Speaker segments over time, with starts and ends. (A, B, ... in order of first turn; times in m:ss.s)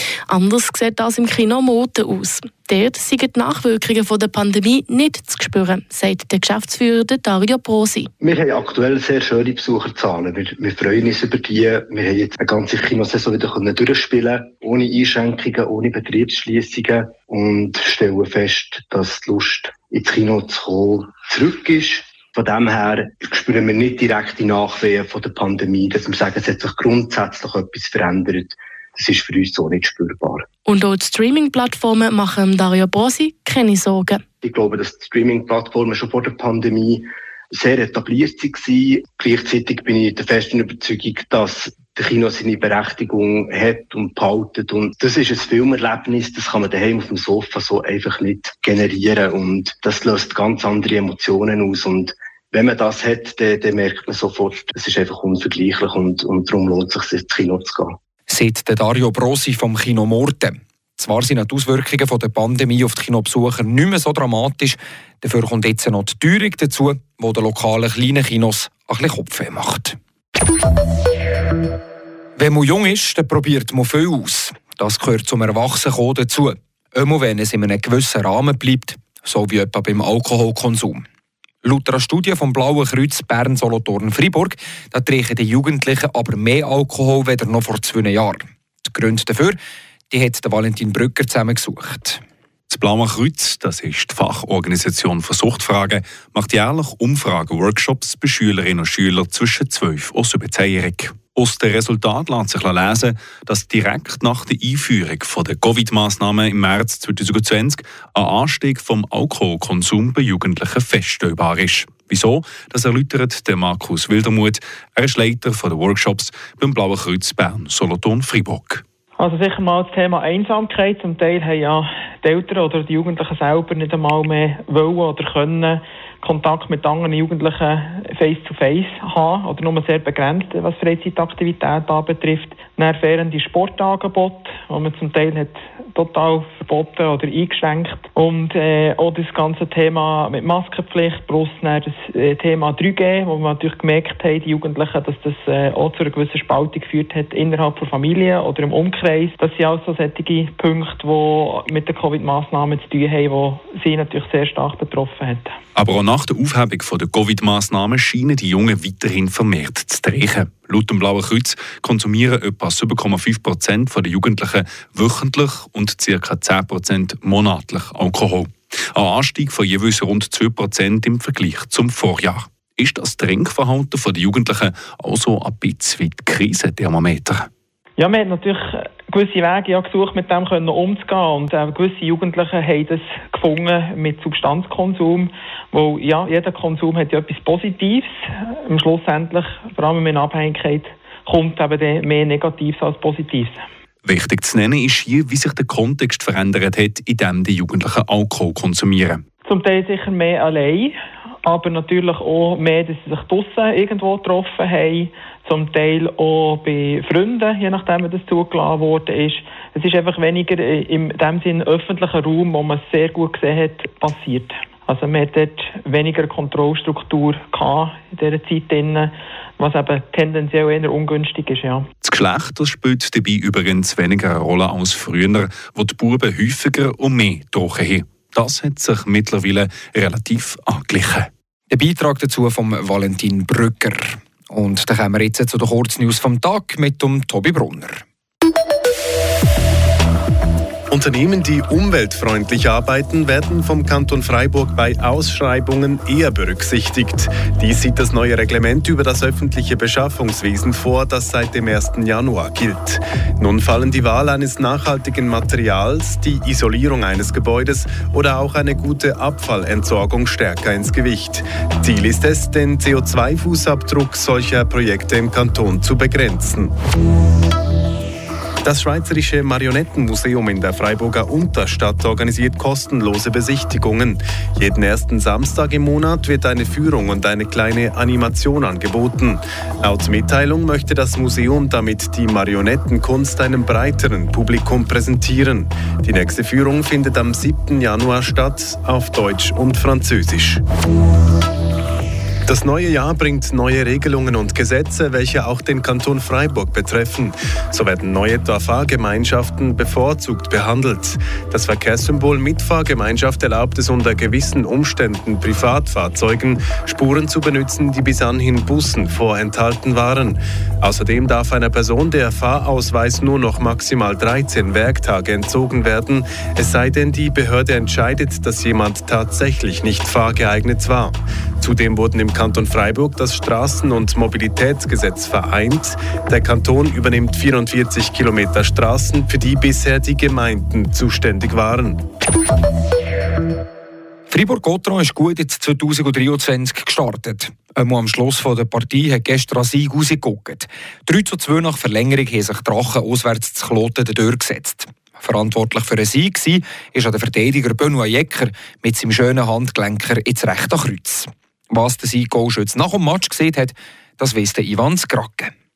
0:00.3-0:08.1 A
0:08.2-0:30.4 B
0:30.6-0:34.2 A
0:34.4-0:58.0 B
0:58.3-1:10.0 C
1:12.4-1:21.0 C
1:21.6-1:29.6 C
1:30.1-1:32.2 C
1:32.7-1:58.8 D
1:59.2-2:35.6 E
2:35.8-2:57.5 D
2:58.0-3:13.6 E
3:14.0-3:19.2 D
3:19.4-3:41.8 E
3:42.0-3:51.3 D
3:51.7-3:58.0 C
4:00.9-4:26.7 F
4:28.6-4:50.6 F
4:52.5-5:32.0 F
5:34.3-5:55.5 C